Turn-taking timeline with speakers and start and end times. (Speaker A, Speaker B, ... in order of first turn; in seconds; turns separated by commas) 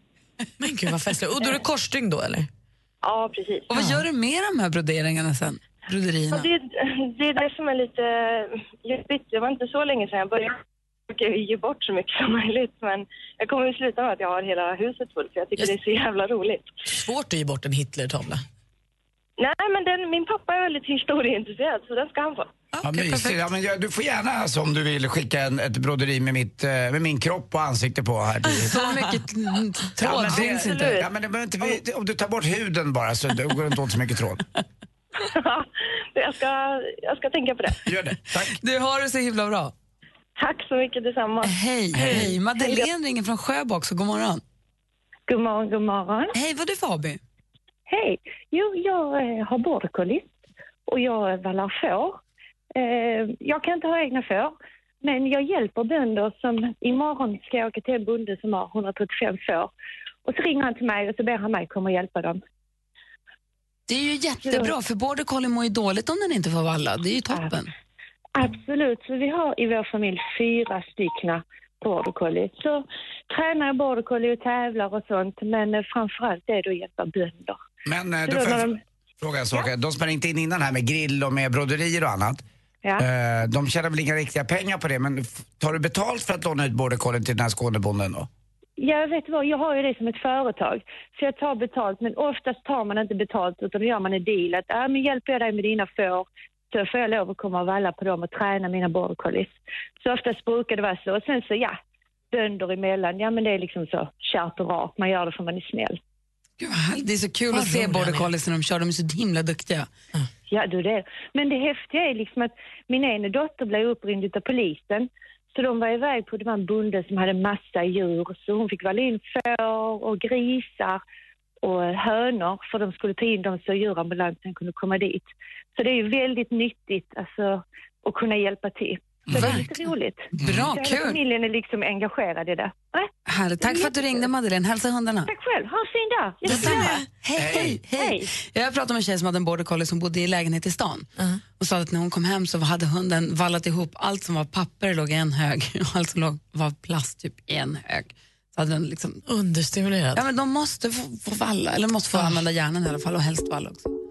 Speaker A: 0.6-2.5, Speaker B: 3.0-3.7, Speaker C: 3.7-6.5, Speaker B: 6.3-16.7, Speaker A: 16.9-18.4, Speaker B: 19.4-22.5, Speaker A: 22.8-23.4, Speaker D: 22.8-28.9, Speaker C: 28.6-31.0, Speaker D: 30.0-34.4, Speaker B: 30.4-31.0, Speaker B: 35.2-37.8, Speaker D: 37.9-38.5, Speaker C: 38.6-39.7, Speaker B: 40.4-41.5, Speaker C: 41.4-44.4, Speaker D: 41.9-42.3, Speaker E: 45.3-46.3, Speaker C: 46.3-47.2, Speaker E: 47.9-50.3, Speaker E: 50.9-52.2, Speaker E: 52.8-59.7, Speaker E: 60.2-62.4, Speaker C: 63.9-67.7, Speaker E: 68.4-77.6, Speaker D: 77.8-78.7, Speaker E: 78.2-78.8, Speaker D: 79.2-82.4, Speaker D: 83.0-88.3, Speaker E: 88.8-101.8, Speaker E: 102.3-106.0, Speaker C: 106.6-109.9, Speaker A: 107.5-108.3, Speaker E: 110.5-121.0, Speaker E: 121.6-134.1, Speaker D: 129.3-129.6, Speaker C: 129.3-129.6, Speaker C: 130.3-131.2, Speaker D: 130.4-130.7, Speaker C: 133.3-135.3, Speaker E: 135.3-137.0, Speaker C: 136.5-141.1, Speaker D: 137.3-137.8, Speaker E: 137.9-138.3, Speaker C: 141.6-149.2, Speaker A: 149.3-150.2, Speaker C: 150.1-153.9